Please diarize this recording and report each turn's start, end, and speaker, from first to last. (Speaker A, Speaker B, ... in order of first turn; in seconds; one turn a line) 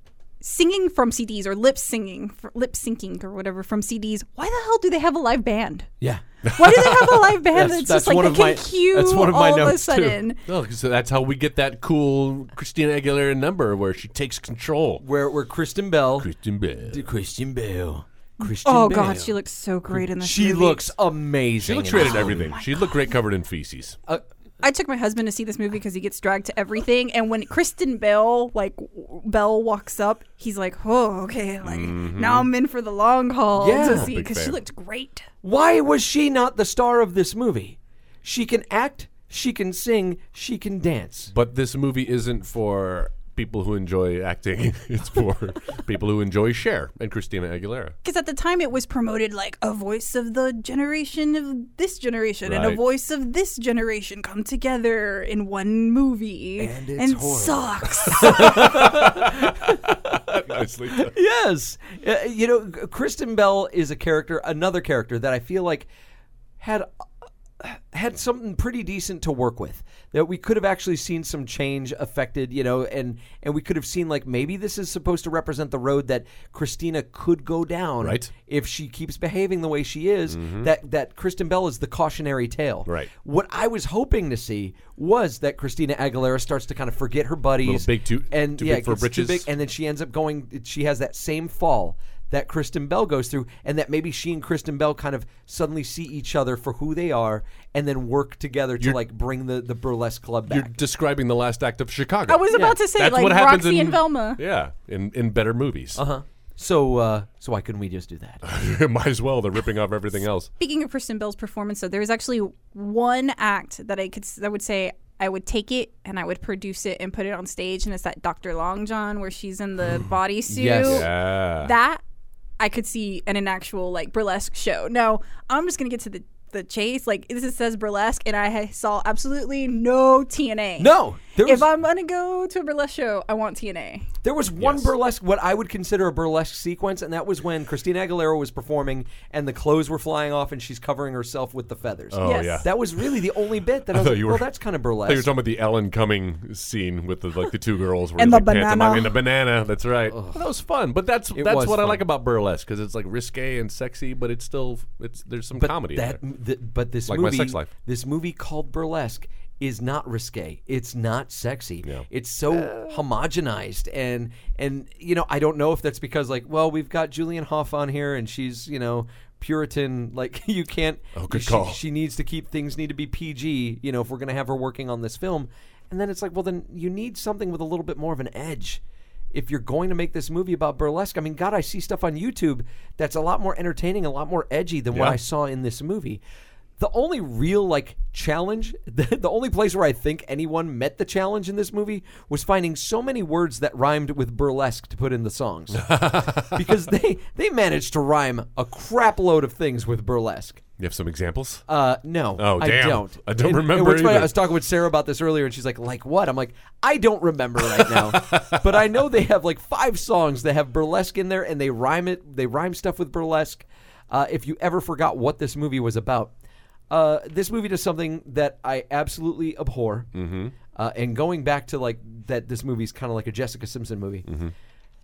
Speaker A: 0.4-5.9
Speaker B: 6.0-10.2
Speaker A: 6.5-10.4
Speaker C: 6.6-7.1
Speaker C: 10.4-15.0
Speaker B: 15.0-16.3
Speaker C: 16.2-17.1
Speaker B: 16.8-19.3
Speaker A: 18.4-20.9
Speaker C: 19.1-19.3
Speaker B: 20.1-22.5
Speaker C: 21.6-24.0
Speaker A: 21.9-22.9
Speaker A: 24.6-35.2
Speaker C: 31.6-32.5
Speaker B: 33.6-34.1
Speaker C: 33.7-34.6
Speaker B: 35.4-41.3
Speaker C: 41.3-48.0
Speaker A: 48.0-58.8
Speaker C: 52.4-52.8
Speaker B: 56.6-65.9
Speaker C: 58.2-61.1
Speaker B: 66.6-66.9
Speaker B: 67.6-100.7
Speaker C: 78.0-78.3
Speaker C: 80.3-80.7
Speaker C: 87.6-89.5
Speaker C: 100.5-106.0
Speaker A: 102.3-104.4
Speaker B: 102.5-102.8
Speaker B: 105.9-108.4
Speaker C: 108.4-110.5
Speaker A: 110.6-122.0
Speaker B: 120.5-121.1
Speaker C: 120.8-121.7
Speaker A: 122.6-134.1
Speaker B: 130.8-131.7
Speaker B: 134.2-145.3
Speaker C: 134.6-134.9
Speaker C: 142.1-143.2
Speaker A: 142.2-142.7
Speaker C: 143.8-144.5
Speaker C: 145.0-156.2
Speaker A: 148.2-149.2
Speaker B: 150.1-150.4
Speaker B: 151.3-152.0
Speaker B: 155.6-178.8
Speaker C: 157.1-157.7
Speaker C: 161.8-163.0
Speaker C: 171.1-171.8
Speaker B: 179.3-186.2
Speaker C: 184.9-185.2
Speaker B: 186.8-200.6
Speaker C: 195.7-196.8
Speaker C: 200.8-201.6
Speaker B: 201.7-216.3
Speaker C: 202.4-204.5
Speaker C: 207.7-209.0
Speaker B: 216.9-220.1
Speaker C: 220.1-220.5
Speaker B: 220.7-224.2
Speaker C: 224.3-224.5